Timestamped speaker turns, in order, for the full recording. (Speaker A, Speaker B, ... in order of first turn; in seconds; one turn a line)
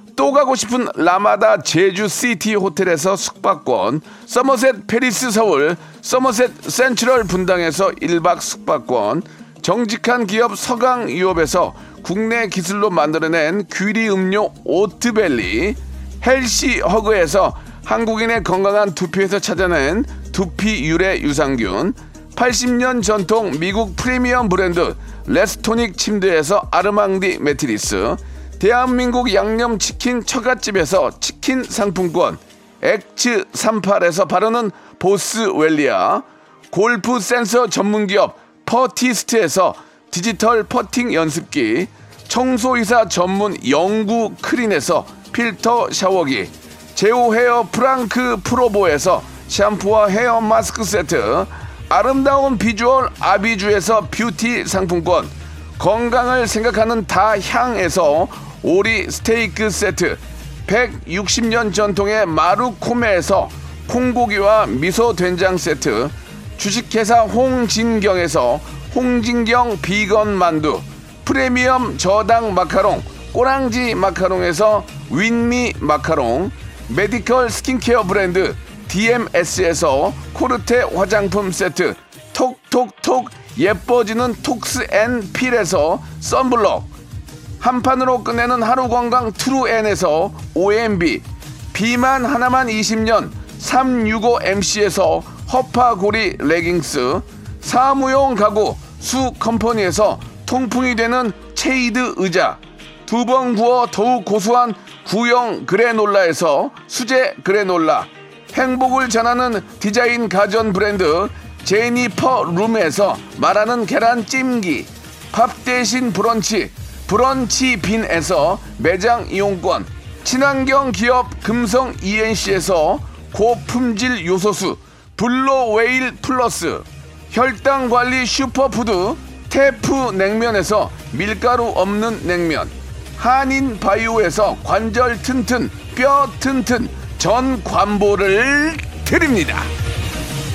Speaker A: 0.2-86.9
Speaker A: 87.6-139.7